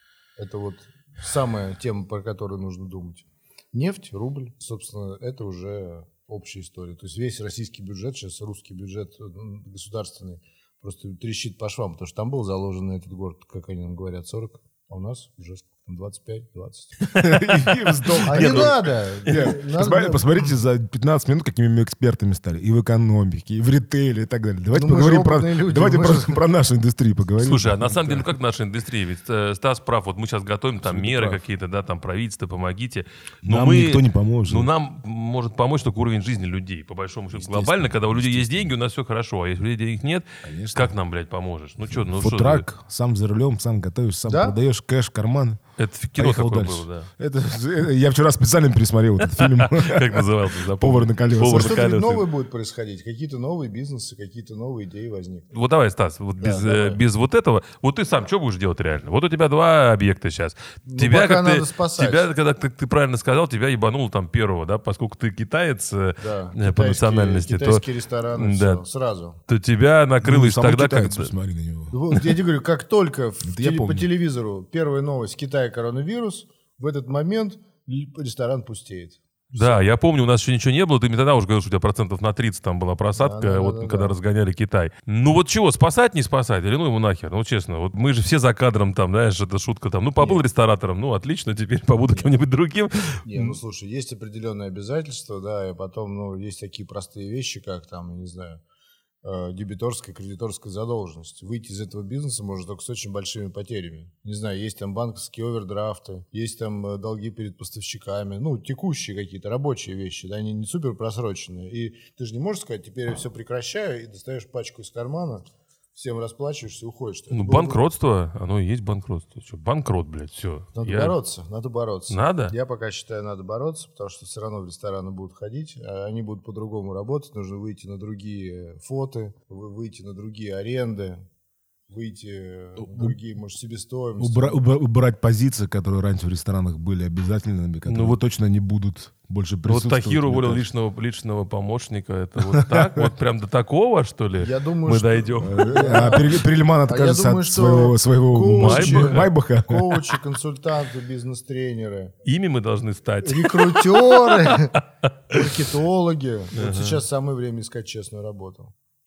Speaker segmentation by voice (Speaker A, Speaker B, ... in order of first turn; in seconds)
Speaker A: 0.4-17.1, 18.2-20.5, 24.7-26.4, 44.3-44.6, 51.4-55.5, 56.4-57.0, 60.9-62.3, 66.2-69.4, 71.9-79.7, 83.2-84.2, 90.2-90.4, 93.2-98.6, 99.2-117.8, 120.8-131.2, 131.9-134.6, 144.4-152.1, 153.2-158.7
Speaker B: 17.0-19.4, 27.4-42.7, 45.8-47.1, 49.2-52.2, 55.5-68.8, 69.5-71.3, 79.5-93.6, 117.3-121.1, 122.1-122.5, 137.9-138.2, 139.7-146.2, 148.6-149.3, 152.2-155.4, 156.5-157.0
Speaker C: 17.1-28.3, 30.8-31.4, 33.4-34.7, 37.3-38.7, 40.4-40.9, 41.9-45.6, 46.2-52.2, 70.2-72.3, 73.4-74.1, 132.8-133.2, 134.2-140.7, 142.4-143.1, 145.4-149.9